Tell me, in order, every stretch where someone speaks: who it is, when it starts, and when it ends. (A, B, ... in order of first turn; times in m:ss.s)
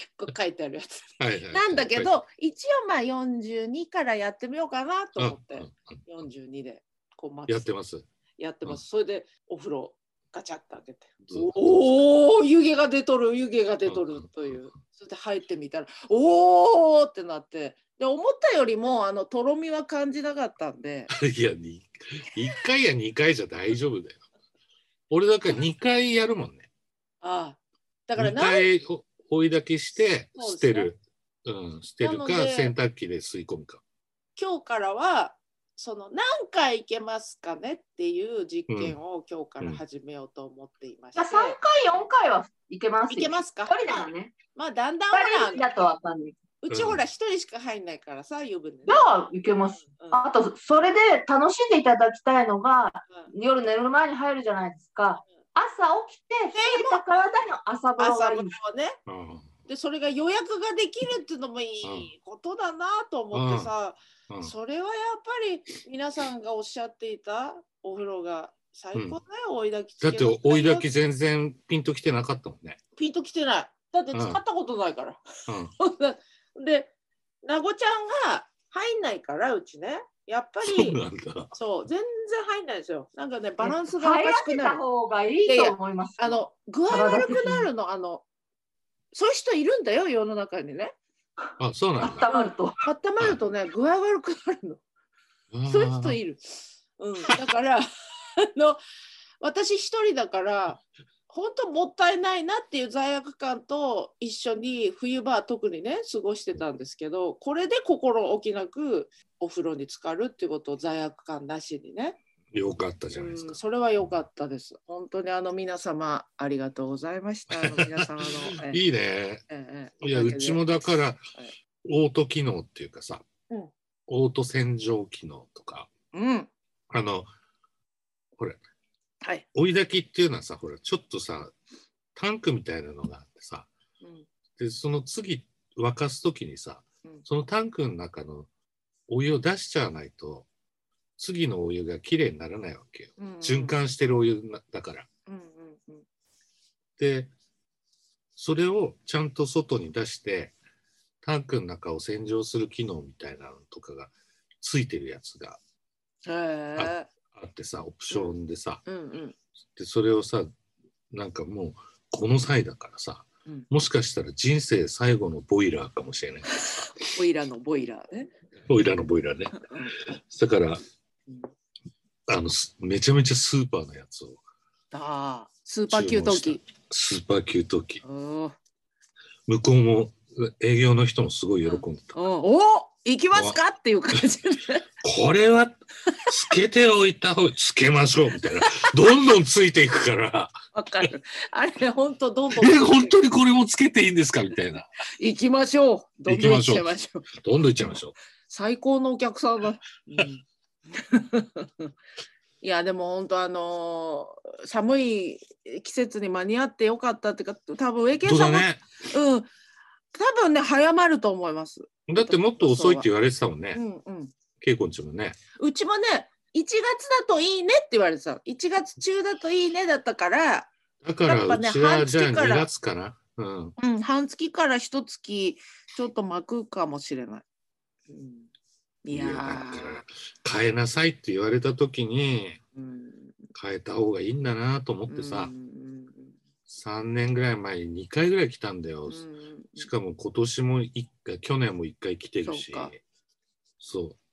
0:00.2-0:07.7 A
0:01.2-0:02.2 B
0:05.2-0:06.0 B
0:07.5-0:08.1 B
0:08.4-0:21.1 A
0:11.2-0:11.6 B
0:13.9-0:14.6 B
0:21.1-0:24.2 B
0:25.1-0:26.7 B
0:27.2-0:28.7 A
0:28.2-0:33.8 B
0:30.4-0:30.9 A
0:32.0-0:32.7 A
0:34.4-0:41.6 A
0:38.7-0:39.0 B
0:41.2-0:44.3 C
0:43.1-0:45.6 A
0:45.1-0:46.4 C
0:46.6-0:49.0 A
0:46.7-0:47.0 B
0:48.9-0:58.5 C
0:49.8-0:50.3 A
0:56.5-0:57.0 A
0:58.0-0:59.0 A
0:59.1-0:59.5 B
0:59.7-1:10.9 A
1:01.8-1:02.1 B
1:03.3-1:03.7 B
1:10.0-1:12.8 B
1:13.0-1:15.2 A
1:14.1-1:14.4 B
1:15.5-1:15.7 B
1:15.8-1:16.9 A
1:17.4-1:21.0 A
1:20.6-1:21.6 B
1:21.5-1:24.8 A
1:23.6-1:27.7 C
1:25.5-1:28.2 A
1:29.1-1:31.0 A
1:31.6-1:32.3 B
1:32.0-1:32.8 C
1:32.3-1:34.8 A
1:35.5-1:36.2 B
1:35.7-1:38.8 A
1:39.4-1:52.2 A
1:52.5-1:53.6 B
1:53.1-1:58.8 A
1:57.5-1:59.4 B
1:59.5-2:00.6 A
2:00.0-2:01.2 B
2:01.8-2:03.3 B
2:04.1-2:05.9 B
2:06.1-2:06.5 A
2:06.9-2:07.3 B
2:09.5-2:11.5 B
2:12.2-2:13.7 B
2:14.0-2:14.3 A
2:14.6-2:18.5 B
2:19.1-2:20.5 B
2:21.2-2:25.1 B
2:23.2-2:23.8 A
2:25.3-2:26.0 A
2:27.0-2:27.3 B
2:28.4-2:30.5 B
2:31.2-2:35.6 B
2:36.2-2:37.1 A
2:36.8-2:38.8 B
2:38.1-2:39.4 A
2:39.8-2:40.5 B
2:41.1-2:46.9 B
2:47.0-2:48.3 A
2:48.7-2:50.8 B
2:49.6-2:50.0 A
2:52.3-2:54.4 B
2:54.9-2:56.6 A
2:55.9-2:58.0 B
2:58.0-2:58.6 A
2:59.5-3:02.2 B
3:01.6-3:04.8 A
3:03.3-3:03.6 B
3:05.0-3:10.6 B
3:10.7-3:13.2 A
3:12.6-3:14.9 B
3:15.2-3:17.3 A
3:16.3-3:18.1 B
3:18.5-3:21.9 A
3:22.6-3:29.5 A
3:28.2-3:28.8 B
3:30.1-3:33.1 A
3:32.1-3:33.8 B
3:33.7-3:34.3 A
3:34.6-3:35.4 B
3:35.6-3:40.7 A
3:41.0-3:43.8 B
3:41.2-3:42.7 A
3:43.8-3:47.4 A
3:48.1-3:48.5 A
3:49.0-3:50.0 A
3:49.1-3:52.6 B
3:52.8-3:53.4 A
3:53.6-3:55.5 B
3:55.1-3:56.4 A
3:56.7-3:59.3 B
3:59.1-3:59.9 A
3:59.8-4:03.0 B
4:02.4-4:02.9 A
4:03.8-4:04.2 B